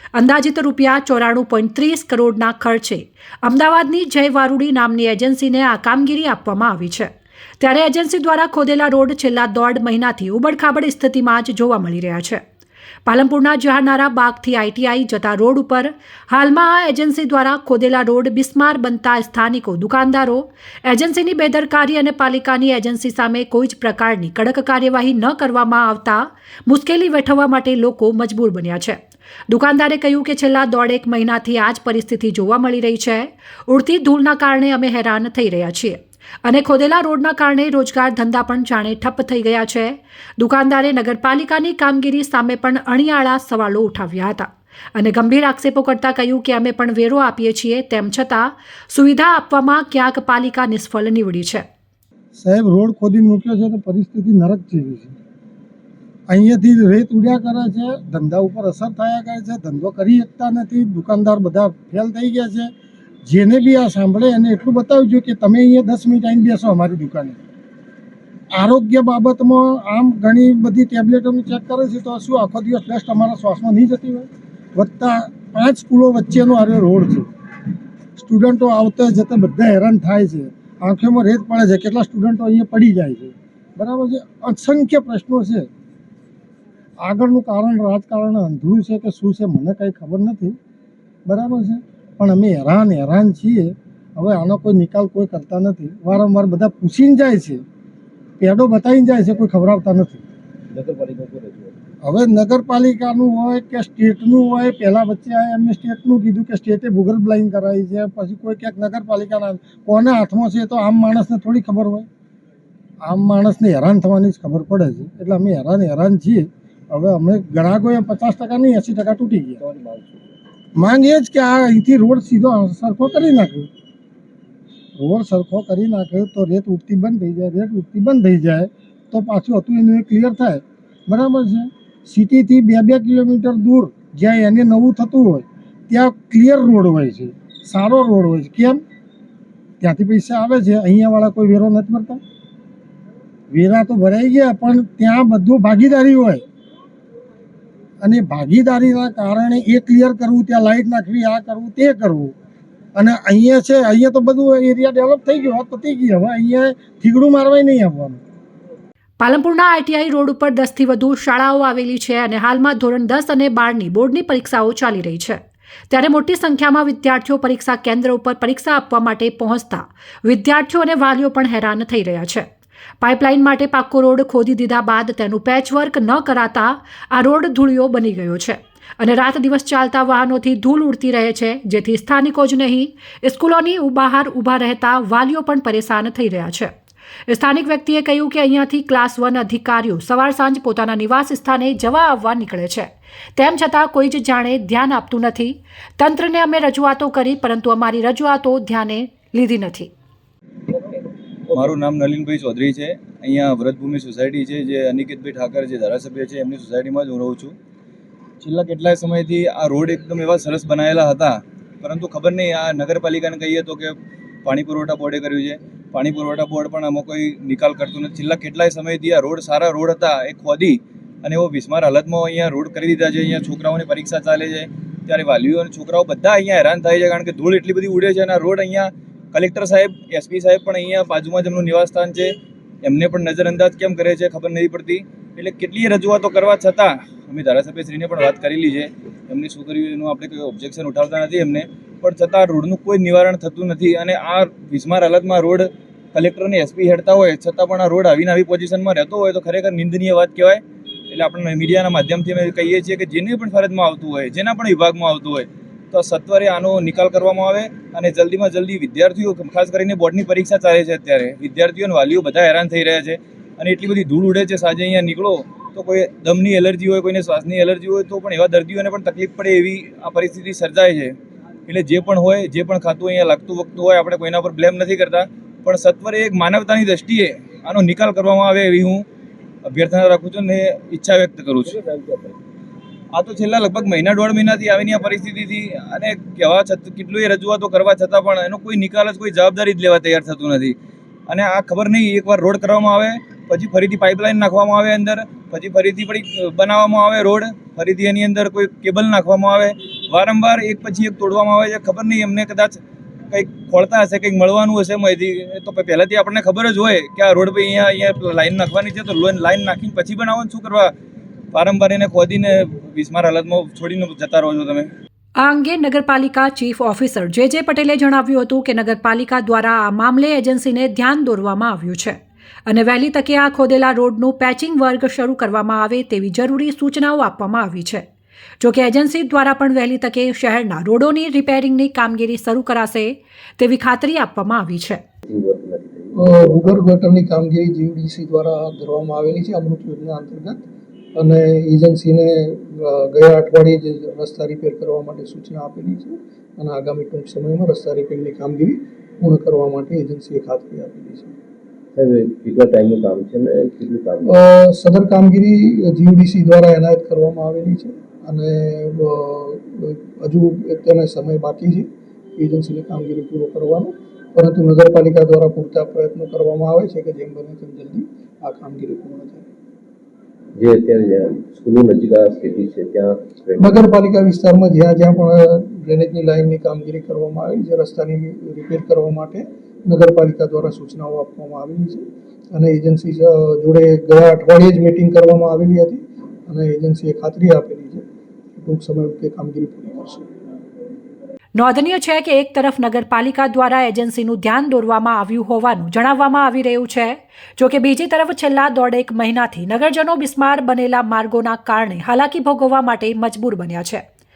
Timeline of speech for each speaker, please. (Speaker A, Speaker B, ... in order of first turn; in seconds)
Speaker A: 0.1-7.1, 7.6-12.4, 13.1-51.6, 159.2-165.4, 165.9-172.4, 173.0-186.7, 187.3-199.9, 315.4-328.1, 328.6-335.0, 391.6-404.0
Speaker B: 52.4-55.1, 56.3-62.7, 63.2-67.4, 68.5-77.3, 78.2-85.7, 87.0-90.6, 91.2-97.6, 98.4-100.2, 102.0-112.1, 113.0-119.6, 120.8-123.7, 125.0-138.8, 139.8-142.2, 143.5-146.4, 148.0-152.3, 152.9-158.2
Speaker C: 100.7-101.8, 119.6-120.3, 281.6-282.4, 335.2-336.9, 351.9-354.5, 370.6-373.9
Speaker D: 201.5-207.6, 208.4-271.1, 271.7-279.1, 279.6-281.7, 283.1-290.8, 291.3-310.9, 311.5-314.9
Speaker E: 336.2-340.6, 341.1-351.4, 354.3-369.5, 373.6-390.3